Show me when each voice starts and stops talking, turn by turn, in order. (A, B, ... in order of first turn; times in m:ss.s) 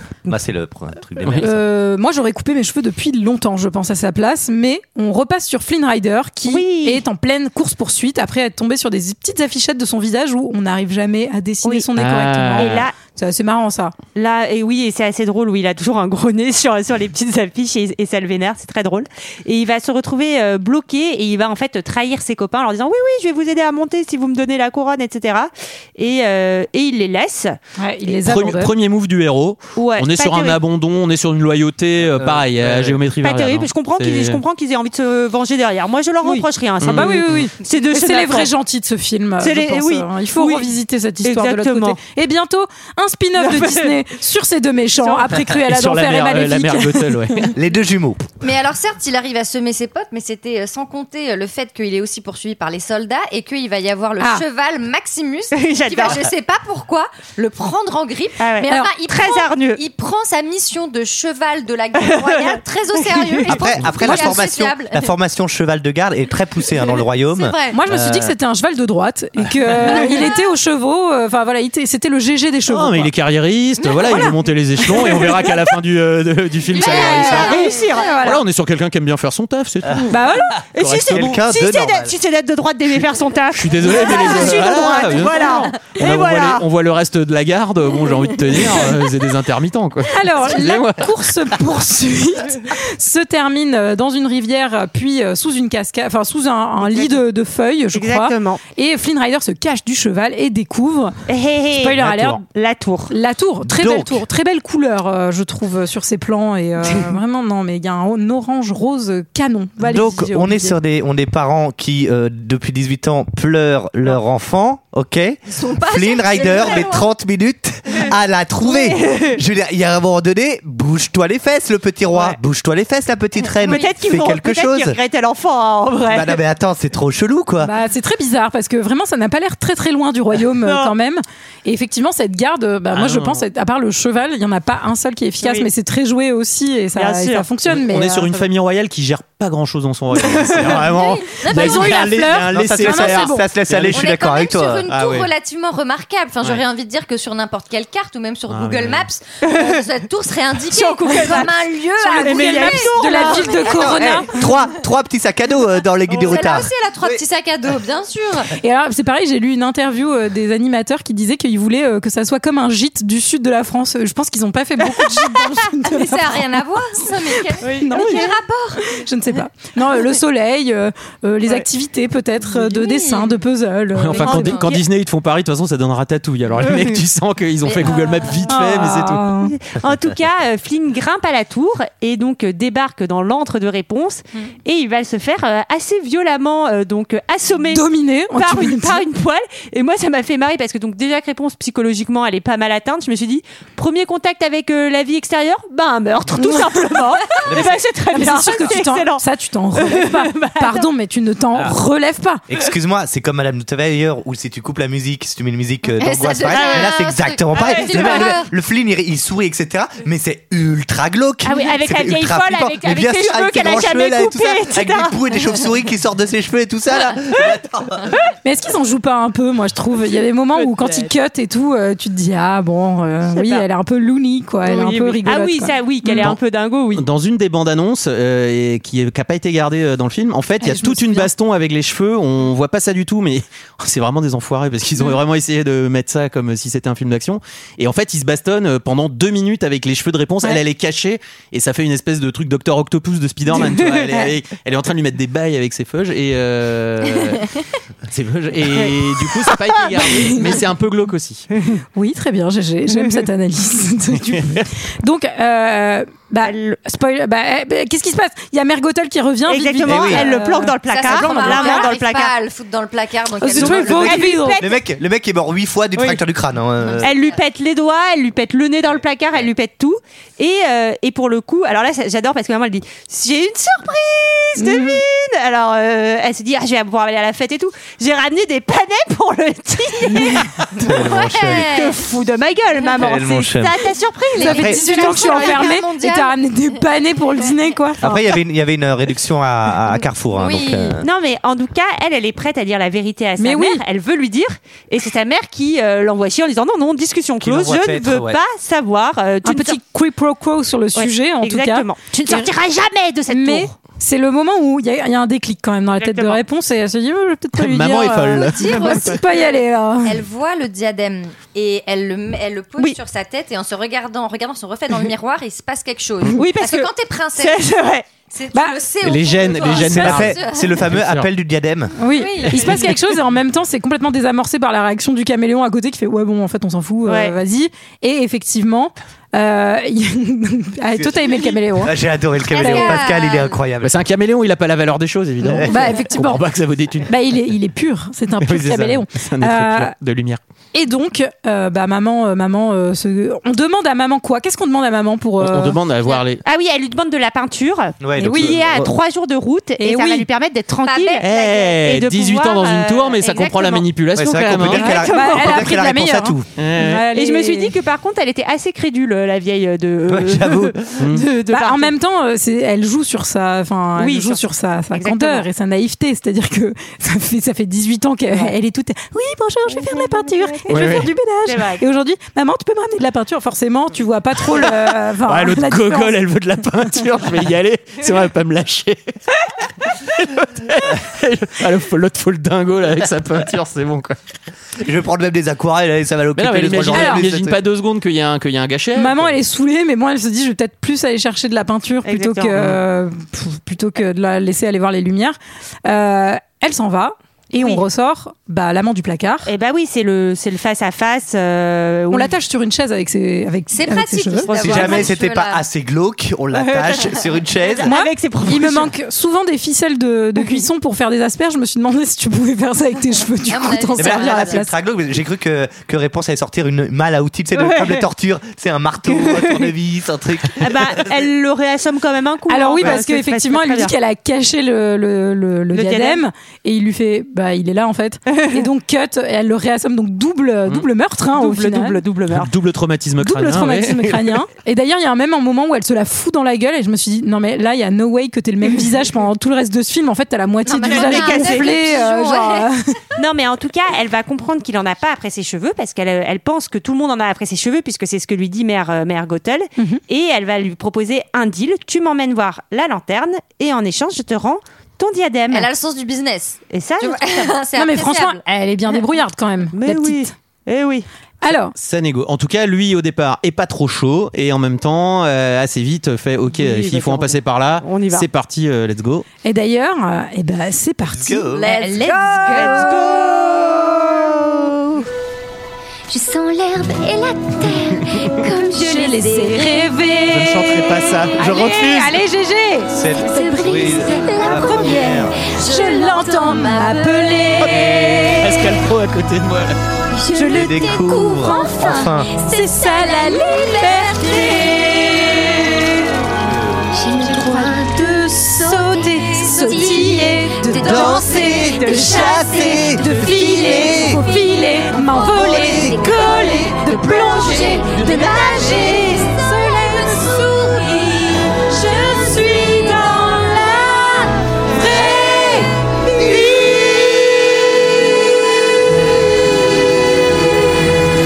0:00.2-0:01.6 A
0:01.4-0:13.9 B
0:06.4-0:07.0 C
0:12.0-0:12.9 D
0:12.6-0:12.9 C
0:14.1-0:27.6 C
0:27.8-0:28.7 B
0:28.1-0:34.4 D
0:29.8-0:30.6 C
0:32.1-0:33.0 A
0:33.2-0:38.5 C
0:36.2-0:47.5 B
0:36.8-0:37.5 D
0:39.4-0:40.7 C
0:41.2-0:42.0 C
0:43.4-0:44.0 C
0:45.5-0:47.5 D
0:47.5-0:48.3 A
0:48.4-1:05.1 E
0:55.5-0:56.3 C
0:58.4-0:59.8 C
1:02.0-1:03.5 C
1:03.5-1:08.3 A
1:06.7-1:07.8 E
1:07.7-1:13.1 B
1:09.8-1:10.4 E
1:12.7-1:21.4 D
1:16.7-1:18.3 E
1:16.8-1:18.2 C
1:16.9-1:18.4 B
1:20.1-1:20.5 B
1:20.7-1:26.6 C
1:21.1-1:22.1 A
1:23.5-1:31.5 D
1:30.1-1:41.1 B
1:36.8-1:37.2 C
1:37.9-1:38.6 C
1:41.3-1:43.1 C
1:41.8-1:42.4 B
1:41.9-1:42.4 D
1:43.1-1:50.8 B
1:43.6-1:44.2 A
1:49.8-2:05.0 A
1:55.5-1:57.1 E
1:58.6-1:59.4 C
2:02.1-2:02.4 C
2:03.6-2:06.4 C
2:06.1-2:07.7 A
2:07.6-2:18.4 B
2:10.6-2:10.9 C
2:12.9-2:13.4 D
2:15.4-2:15.7 C
2:16.9-2:17.5 C
2:17.7-2:24.0 D
2:20.8-2:22.2 E
2:21.4-2:23.5 B
2:22.5-2:24.9 A
2:23.9-2:34.5 E
2:24.9-2:25.3 D
2:28.5-2:29.1 D
2:29.4-2:29.8 C
2:30.7-2:34.0 C
2:31.1-2:34.4 B
2:33.7-2:37.2 A
2:36.1-2:38.5 E
2:38.6-2:54.6 B
2:45.9-2:48.9 E
2:47.6-2:48.2 C
2:52.4-2:53.4 E
2:53.9-2:59.3 D
2:54.1-2:54.8 C
2:56.6-2:57.0 C
2:57.6-2:58.5 E
2:58.5-2:59.5 B
2:59.5-3:19.2 C
3:07.7-3:09.0 B
3:16.4-3:16.7 B
3:17.4-3:17.8 A
3:18.0-3:22.4 B
3:19.7-3:20.9 C
3:22.5-3:38.1 A
3:26.0-3:28.5 E
3:26.5-3:26.9 C
3:27.5-3:28.3 C
3:31.4-3:35.2 C
3:38.4-3:46.3 B
3:40.6-3:41.1 C
3:43.3-3:43.6 C
3:44.6-3:47.0 C
3:46.9-4:07.4 D
3:50.6-3:51.3 B
4:03.6-4:04.1 C
4:08.1-4:11.5 D
4:10.0-4:10.5 B
4:12.0-4:21.9 B
4:14.2-4:14.7 D
4:16.4-4:16.8 C
4:19.5-4:22.3 C
4:19.8-4:20.2 A
4:20.9-4:24.3 E
4:23.4-4:24.6 B
4:23.5-4:24.8 C
4:23.6-4:27.1 A
4:26.8-4:27.3 E
4:27.0-4:40.4 C
4:34.6-4:35.0 B
4:40.8-4:41.7 A
4:40.8-4:42.0 E
4:41.6-4:45.7 C
4:42.8-4:43.1 E
4:43.0-4:43.8 A
4:44.3-4:46.4 E
4:44.4-4:48.2 B
4:44.5-4:44.8 A
4:48.0-4:51.0 A
4:50.4-4:51.0 E
4:51.0-4:59.8 C
4:53.4-4:53.8 B
4:57.4-4:58.4 A
4:59.4-5:02.5 B
5:00.9-5:03.7 C
5:03.3-5:10.2 B
5:05.9-5:06.4 C
5:07.5-5:09.0 D
5:08.3-5:17.6 E
5:16.3-5:18.0 C
5:18.3-5:20.8 E
5:18.5-5:18.8 B
5:19.0-5:21.3 D
5:19.6-5:20.1 B
5:19.8-5:21.9 A
5:22.0-5:31.9 B
5:22.1-5:22.8 E
5:27.0-5:27.3 C
5:30.9-5:33.9 A
5:32.5-5:33.6 E
5:33.8-5:37.2 D
5:35.4-5:35.8 A
5:35.6-5:36.4 B
5:37.0-5:39.9 B
5:38.4-5:40.4 D
5:40.7-5:45.8 B
5:45.4-5:46.4 D
5:46.1-5:53.8 C
5:48.0-5:48.9 A
5:48.2-5:48.6 B
5:49.8-5:50.3 B
5:50.8-5:51.8 E
5:51.2-5:54.9 D
5:54.1-5:56.5 A
5:54.7-5:55.6 C
5:54.7-5:57.7 B
5:56.6-5:57.0 D
5:57.1-6:01.9 C
6:00.1-6:00.8 A
6:01.0-6:01.3 D
6:01.4-6:16.2 B
6:04.0-6:05.4 C
6:09.7-6:10.6 C
6:10.7-6:11.1 D
6:11.4-6:11.8 C
6:14.5-6:19.0 D
6:19.8-6:24.2 D
6:24.8-6:27.6 A
6:26.4-6:29.3 D
6:26.9-6:27.2 B
6:28.9-6:39.5 B
6:32.0-6:32.5 C
6:32.6-6:32.8 D
6:39.4-6:42.3 C
6:42.1-6:45.0 B
6:43.7-6:45.6 E
6:44.4-6:45.1 C
6:44.6-6:47.9 A
6:46.5-6:48.9 C
6:47.8-6:54.7 B
6:53.5-6:54.6 E
6:54.0-7:01.1 A
6:57.6-6:58.0 C
6:59.1-6:59.7 C
7:00.6-7:03.9 C
7:02.5-7:12.0 B
7:05.7-7:06.2 C
7:08.3-7:08.6 C
7:11.3-7:12.5 C
7:12.3-7:14.4 D
7:13.2-7:22.8 B
7:20.6-7:22.7 E
7:20.8-7:21.8 C
7:23.2-7:35.7 C
7:35.5-7:38.4 E
7:36.7-7:37.5 C
7:37.8-7:40.3 B
7:39.7-7:41.1 C
7:41.4-7:41.7 B
7:41.6-7:49.2 D
7:46.5-7:48.3 C
7:49.4-7:52.9 B
7:51.1-7:51.7 A
7:51.5-7:53.2 E
7:52.5-7:53.6 C
7:56.1-7:59.9 F
7:58.5-8:08.8 B
8:00.3-8:02.2 D
8:02.9-8:05.4 A
8:03.2-8:06.9 F
8:03.7-8:04.8 E
8:05.6-8:07.7 E
8:07.6-8:09.8 D
8:10.1-8:15.3 F
8:10.3-8:11.8 B
8:10.5-8:12.3 A
8:12.4-8:16.1 B
8:13.3-8:15.2 E
8:16.4-8:16.8 A
8:16.9-8:22.1 F
8:17.2-8:34.0 B
8:19.4-8:24.2 E
8:20.7-8:24.2 A
8:23.4-8:29.9 F
8:25.3-8:25.9 A
8:25.6-8:31.2 E
8:32.0-8:32.8 F
8:33.4-8:33.9 E
8:34.7-8:35.7 B